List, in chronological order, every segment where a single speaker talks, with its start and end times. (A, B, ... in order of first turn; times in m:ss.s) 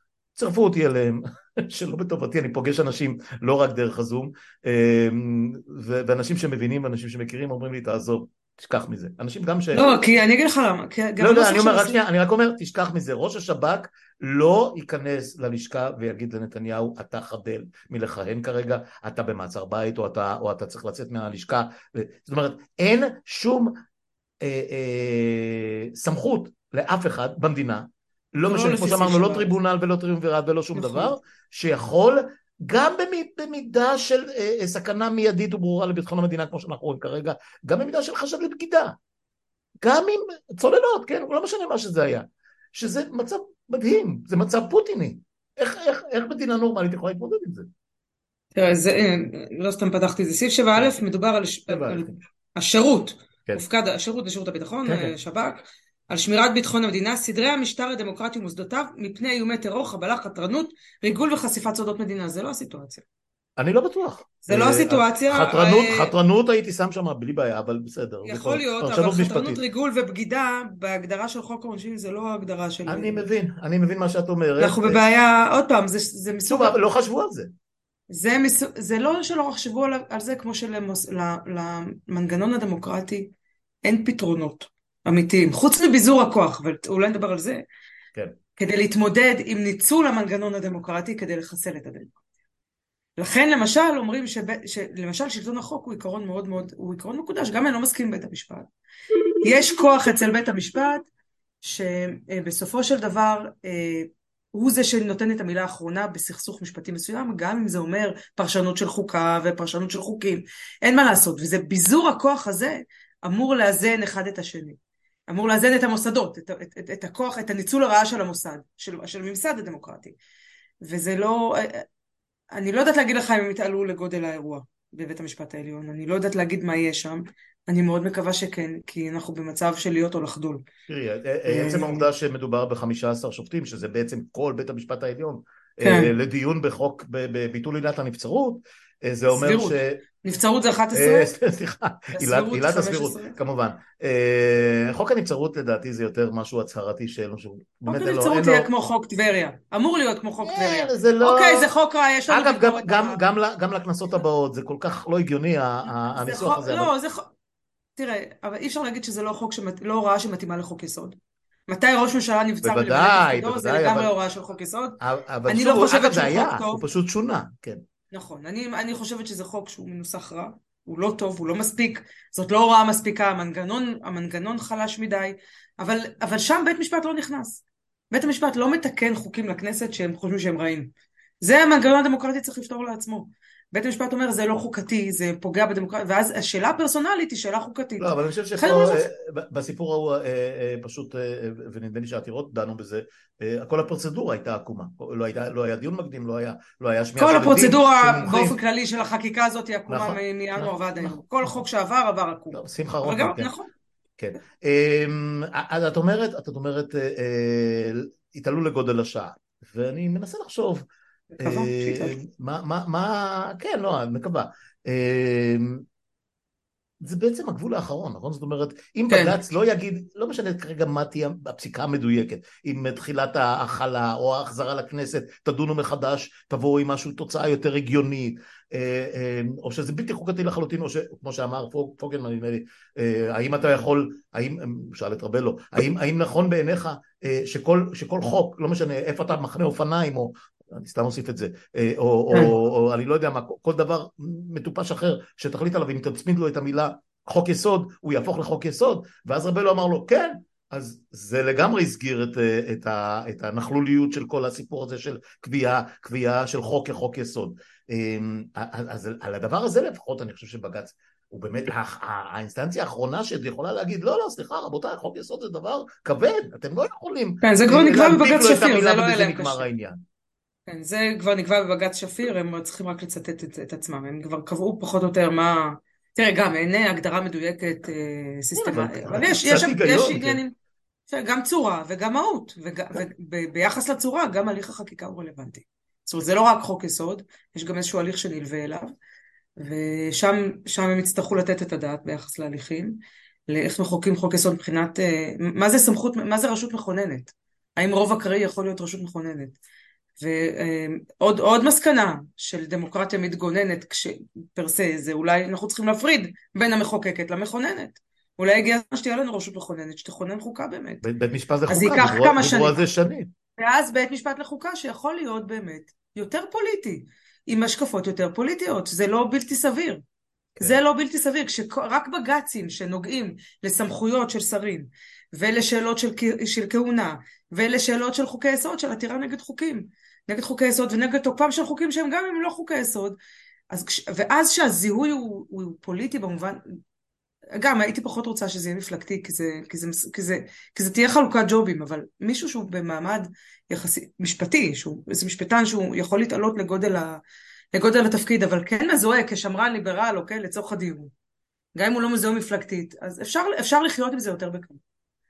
0:00.4-0:09.9 A
0:09.7-0:12.0 B
0:11.2-0:23.7 A
0:24.4-0:39.0 A
0:28.4-0:29.5 B
0:30.7-0:31.1 B
0:39.8-0:47.7 A
0:48.5-1:03.0 B
0:51.7-0:52.2 A
0:54.8-0:55.1 A
1:03.6-1:09.6 A
1:04.4-1:06.1 B
1:08.2-1:13.3 B
1:12.8-1:15.0 A
1:14.6-1:16.8 B
1:16.4-1:17.5 A
1:18.1-1:23.3 B
1:23.8-1:27.6 B
1:28.6-1:32.1 B
1:33.2-1:38.7 B
1:39.4-1:41.1 B
1:41.6-1:54.8 B
1:55.3-2:00.2 B
2:00.8-2:01.8 B
2:02.5-2:10.6 B
2:10.9-2:20.0 A
2:11.4-2:12.1 B
2:15.8-2:16.1 B
2:19.3-2:21.3 B
2:20.9-2:28.7 A
2:22.1-2:23.4 B
2:27.9-2:33.2 B
2:30.4-2:31.7 A
2:32.3-2:36.9 A
2:36.1-2:37.3 B
2:38.0-2:41.2 B
2:41.7-2:46.8 B
2:42.6-2:44.1 A
2:45.0-2:47.8 A
2:48.1-3:09.1 B
3:08.0-3:18.6 A
3:17.2-3:23.7 B
3:19.9-3:21.2 A
3:22.5-3:23.5 A
3:24.2-3:30.8 A
3:31.3-3:32.2 B
3:31.4-3:35.8 A
3:37.0-4:30.0 A
3:39.1-3:39.4 B
4:27.4-4:29.7 B
4:30.7-4:40.5 B
4:38.5-4:40.4 A
4:41.1-4:48.9 B
4:49.6-4:59.6 B
5:00.2-5:11.0 B
5:11.0-5:13.3 A
5:11.7-5:12.8 B
5:13.6-5:20.0 B
5:20.6-5:33.2 B
5:33.7-5:36.8 B
5:37.6-5:47.2 B
5:47.7-5:51.1 B
5:51.8-5:54.8 B